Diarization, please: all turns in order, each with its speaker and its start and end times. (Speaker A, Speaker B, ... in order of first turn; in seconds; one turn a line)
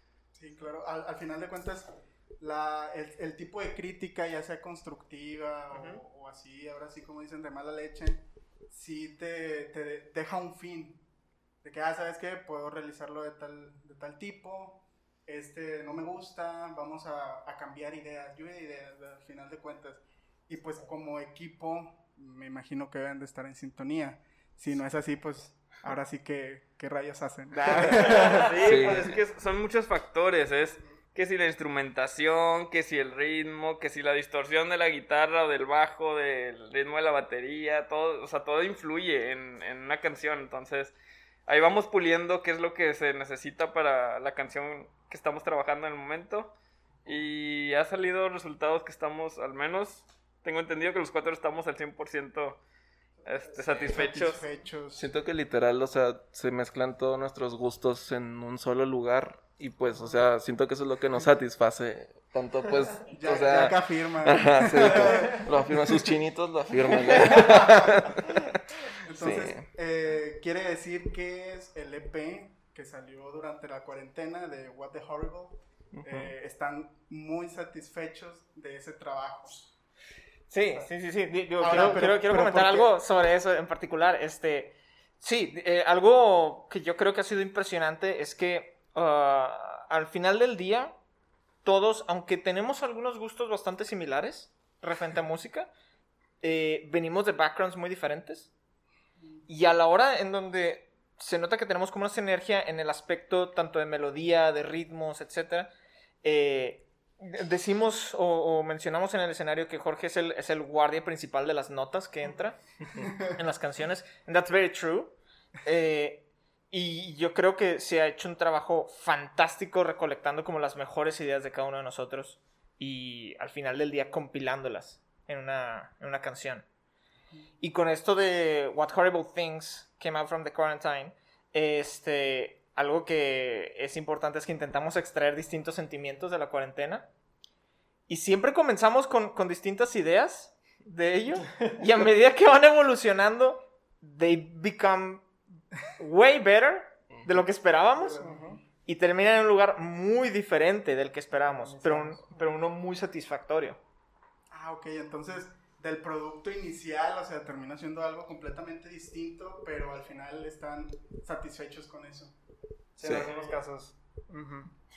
Speaker A: 0.4-11.0
Speaker A: 11.6-28.8
Speaker B: 27.7-41.0
Speaker C: 28.6-29.2
Speaker B: 41.5-46.5
Speaker B: 47.1-52.6
Speaker B: 53.2-54.4
Speaker A: 53.5-55.0
Speaker C: 55.0-68.5
Speaker A: 63.1-65.9
Speaker A: 66.9-68.1
Speaker A: 69.0-79.7
Speaker C: 69.2-69.7
Speaker C: 75.9-76.3
Speaker D: 80.5-90.9
Speaker A: 81.6-82.9
Speaker D: 91.6-95.7
Speaker D: 96.4-98.5
Speaker D: 99.5-105.7
Speaker D: 106.2-112.6
Speaker D: 113.2-126.6
Speaker D: 127.6-137.1
Speaker D: 138.1-145.3
Speaker D: 146.0-148.3
Speaker A: 148.0-148.6
Speaker E: 148.2-148.6
Speaker D: 148.8-153.8
Speaker E: 151.7-152.2
Speaker A: 154.5-162.3
Speaker E: 163.0-164.7
Speaker C: 163.0-163.3